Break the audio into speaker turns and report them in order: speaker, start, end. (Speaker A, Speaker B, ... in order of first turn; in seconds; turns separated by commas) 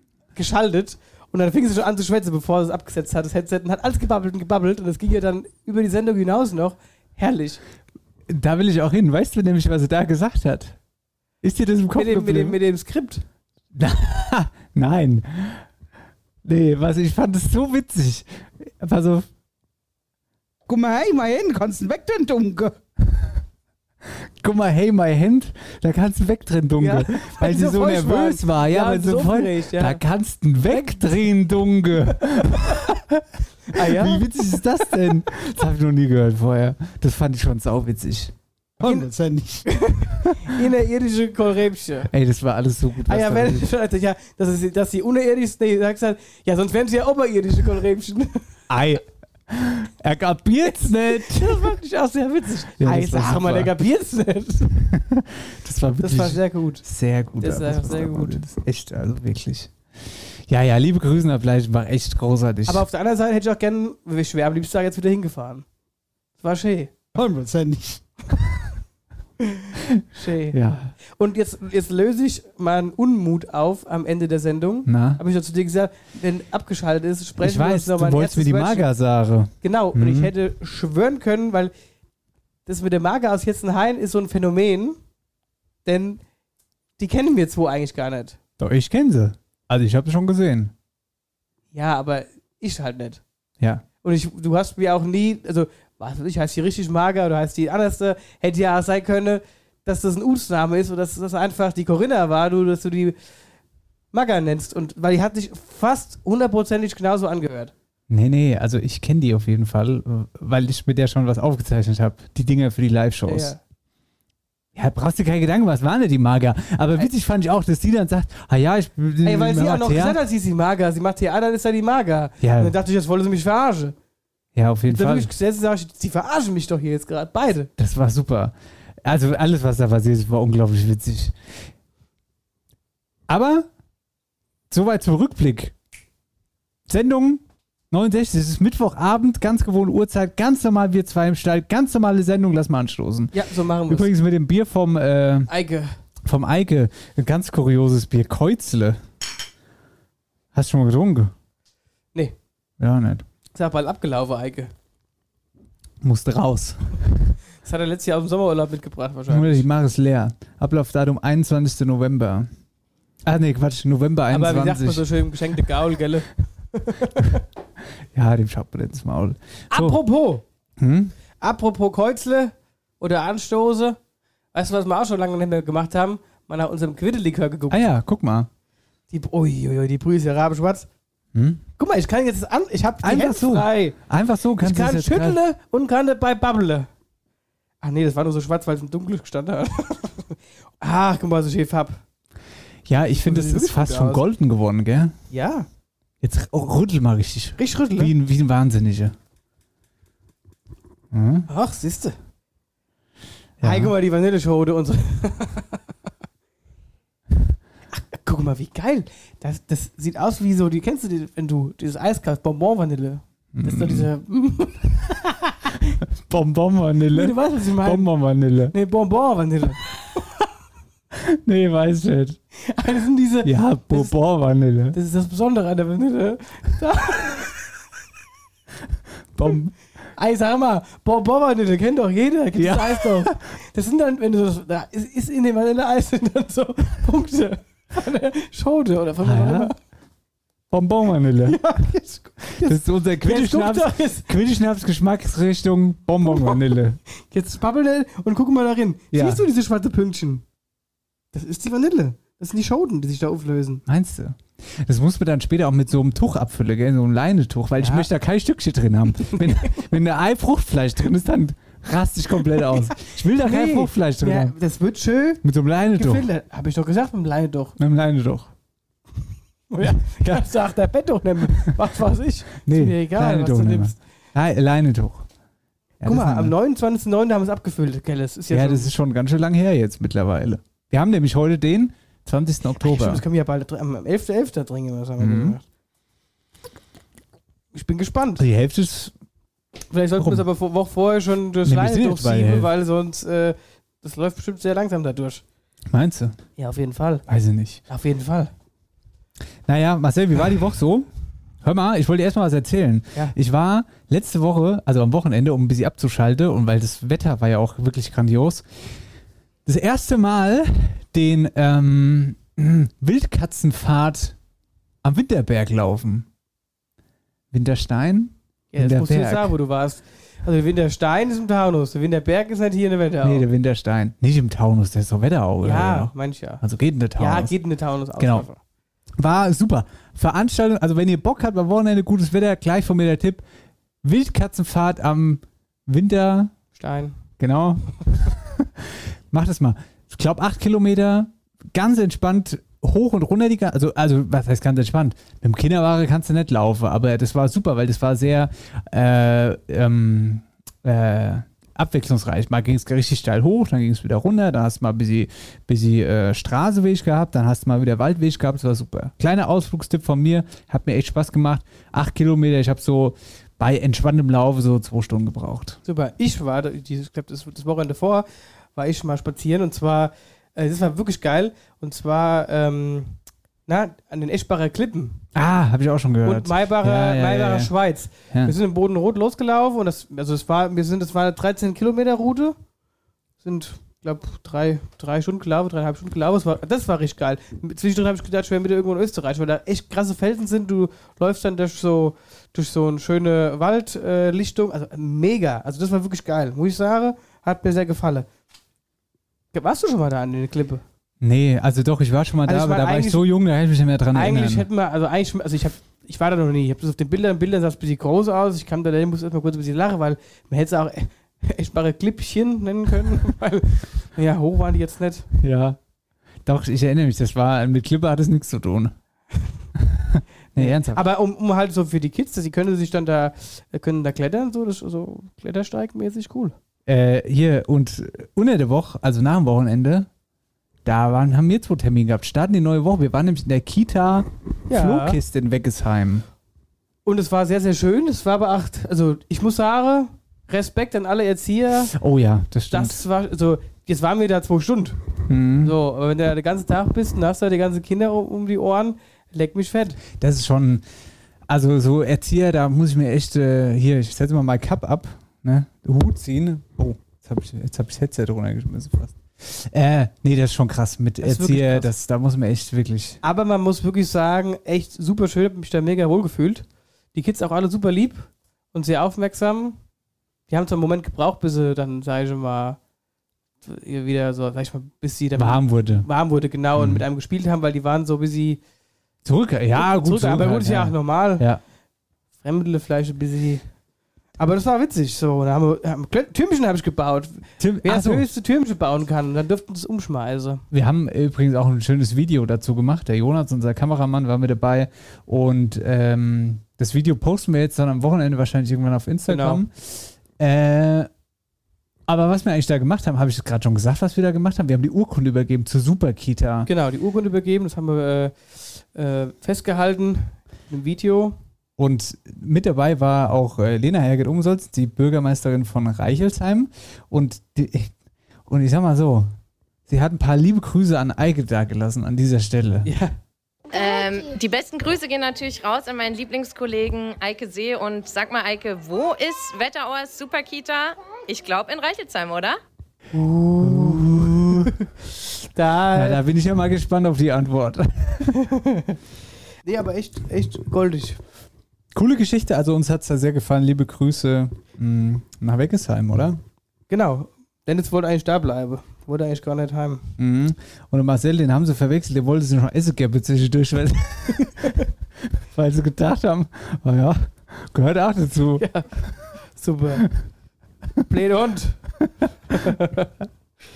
Speaker A: 0.4-7.6, Speaker B: 8.3-10.8, Speaker B: 11.4-12.6, Speaker A: 11.9-13.2, Speaker B: 13.7-15.7, Speaker B: 16.4-19.3, Speaker C: 20.7-22.8, Speaker B: 24.4-38.3, Speaker A: 26.8-30.0, Speaker A: 30.7-31.2, Speaker A: 32.1-32.8, Speaker A: 33.7-34.3, Speaker C: 38.8-39.6, Speaker A: 38.8-39.1, Speaker A: 39.7-42.1, Speaker B: 42.1-43.7, Speaker A: 43.1-48.4, Speaker B: 48.7-51.8, Speaker A: 50.8-54.9, Speaker B: 52.8-53.7, Speaker B: 54.9-59.8, Speaker A: 56.0-56.9, Speaker A: 57.4-58.4, Speaker B: 60.5-62.9, Speaker A: 62.7-65.7, Speaker A: 66.4-66.9, Speaker C: 67.2-68.0, Speaker A: 69.4-70.6, Speaker B: 69.9-70.9, Speaker A: 71.2-78.9, Speaker B: 74.9-75.2, Speaker B: 77.4-80.3, Speaker A: 79.6-81.7, Speaker A: 82.7-85.0, Speaker A: 85.8-86.2, Speaker A: 87.0-88.4, Speaker B: 88.6-90.7, Speaker A: 91.7-93.2, Speaker A: 94.0-103.2, Speaker A: 104.1-107.7, Speaker B: 108.1-113.5, Speaker A: 113.3-113.6, Speaker B: 114.8-120.2, Speaker A: 119.2-124.0, Speaker B: 122.4-122.7, Speaker B: 124.5-125.3, Speaker A: 124.9-127.7, Speaker B: 127.8-131.3, Speaker B: 133.3-133.7, Speaker B: 134.7-135.7, Speaker B: 136.9-143.4, Speaker A: 143.3-144.1, Speaker B: 143.9-145.5, Speaker A: 145.5-145.9, Speaker B: 146.2-149.0, Speaker B: 150.5-151.3, Speaker B: 152.8-153.2, Speaker A: 153.5-154.7, Speaker B: 156.0-157.3, Speaker A: 157.6-159.7, Speaker B: 159.3-162.5, Speaker B: 163.2-165.1, Speaker A: 164.3-167.4, Speaker B: 168.1-170.0, Speaker A: 169.7-170.4, Speaker B: 170.8-171.1, Speaker A: 171.4-174.0, Speaker A: 174.5-177.8, Speaker B: 177.7-178.5, Speaker A: 179.1-180.9, Speaker B: 181.3-181.6, Speaker A: 181.8-184.0, Speaker B: 183.0-185.4, Speaker A: 184.6-186.9, Speaker A: 187.8-192.0, Speaker B: 192.9-195.2, Speaker A: 193.1-194.2, Speaker A: 195.3-195.7, Speaker B: 196.2-199.1, Speaker A: 197.6-198.1, Speaker B: 201.1-201.5, Speaker A: 201.5-202.2, Speaker B: 203.6-203.9, Speaker A: 203.6-205.8, Speaker A: 207.9-215.8, Speaker B: 213.5-214.1, Speaker B: 216.3-218.8, Speaker A: 217.1-218.1, Speaker A: 218.7-220.3, Speaker B: 221.1-222.4, Speaker A: 222.7-224.1, Speaker B: 223.4-225.0, Speaker A: 224.9-227.5, Speaker B: 229.3-229.7, Speaker A: 230.2-239.8, Speaker B: 232.6-233.4, Speaker B: 239.2-239.7, Speaker B: 240.7-241.7, Speaker A: 241.5-244.3, Speaker B: 242.6-247.0, Speaker A: 246.3-246.6, Speaker A: 247.3-250.4, Speaker B: 249.1-249.4, Speaker A: 251.3-253.8, Speaker B: 253.9-264.6, Speaker A: 257.8-258.1, Speaker A: 263.0-265.4, Speaker B: 265.4-266.3, Speaker A: 265.9-267.8, Speaker B: 267.8-268.5, Speaker A: 269.7-274.0, Speaker B: 269.8-270.5, Speaker B: 272.7-275.3, Speaker B: 276.0-276.5, Speaker A: 276.1-278.9, Speaker B: 278.5-283.2, Speaker A: 282.8-285.6, Speaker B: 285.2-285.6, Speaker A: 287.7-288.4, Speaker B: 288.4-289.1, Speaker A: 289.9-295.4, Speaker B: 290.2-290.4, Speaker B: 291.6-292.7, Speaker B: 295.9-296.4, Speaker A: 296.6-297.2, Speaker B: 297.3-297.8, Speaker A: 297.9-298.5, Speaker B: 299.7-301.1, Speaker B: 301.6-308.7, Speaker B: 309.7-314.4, Speaker B: 315.0-316.3, Speaker B: 317.5-319.5, Speaker A: 318.7-323.5, Speaker B: 323.2-327.6, Speaker A: 325.6-326.6, Speaker A: 327.2-328.6, Speaker B: 328.2-328.5, Speaker B: 329.2-333.4, Speaker B: 334.0-336.5, Speaker A: 336.8-337.1, Speaker B: 337.4-365.8, Speaker A: 365.9-373.1, Speaker A: 373.7-375.2, Speaker B: 375.4-377.7, Speaker A: 376.2-382.6, Speaker A: 383.4-398.3, Speaker A: 399.5-400.8, Speaker B: 401.2-404.7, Speaker A: 402.5-403.3, Speaker A: 404.1-415.3, Speaker B: 415.4-415.8, Speaker B: 416.5-418.9, Speaker B: 419.8-421.0, Speaker A: 420.6-426.6, Speaker B: 426.9-430.1, Speaker B: 430.9-436.3, Speaker A: 434.7-435.2, Speaker A: 437.1-441.9, Speaker B: 441.9-443.0, Speaker A: 442.7-445.0, Speaker B: 445.3-445.8, Speaker A: 445.6-450.0, Speaker B: 450.1-450.8, Speaker B: 451.5-463.2, Speaker A: 461.2-461.9, Speaker A: 463.2-469.8, Speaker A: 470.5-472.8, Speaker A: 473.6-478.6, Speaker B: 475.4-476.1, Speaker B: 476.8-477.0, Speaker B: 479.2-481.6, Speaker A: 479.8-481.5, Speaker A: 482.4-483.6, Speaker A: 484.4-490.6, Speaker B: 487.6-488.3, Speaker B: 490.7-501.1, Speaker A: 499.3-499.6, Speaker B: 502.1-506.7, Speaker A: 506.7-511.4, Speaker B: 511.8-517.9, Speaker B: 518.5-519.3, Speaker B: 519.9-522.9, Speaker A: 522.9-523.1, Speaker D: 523.7-532.6, Speaker A: 533.1-534.9, Speaker B: 533.6-534.7, Speaker A: 535.5-536.2, Speaker B: 535.9-538.3, Speaker A: 538.3-539.0, Speaker A: 539.7-541.2, Speaker B: 541.9-546.4, Speaker A: 546.9-550.1, Speaker B: 550.2-554.8, Speaker A: 554.4-554.9, Speaker B: 555.4-558.7, Speaker A: 558.6-558.9, Speaker A: 559.5-560.1, Speaker A: 561.1-561.8, Speaker A: 562.5-563.1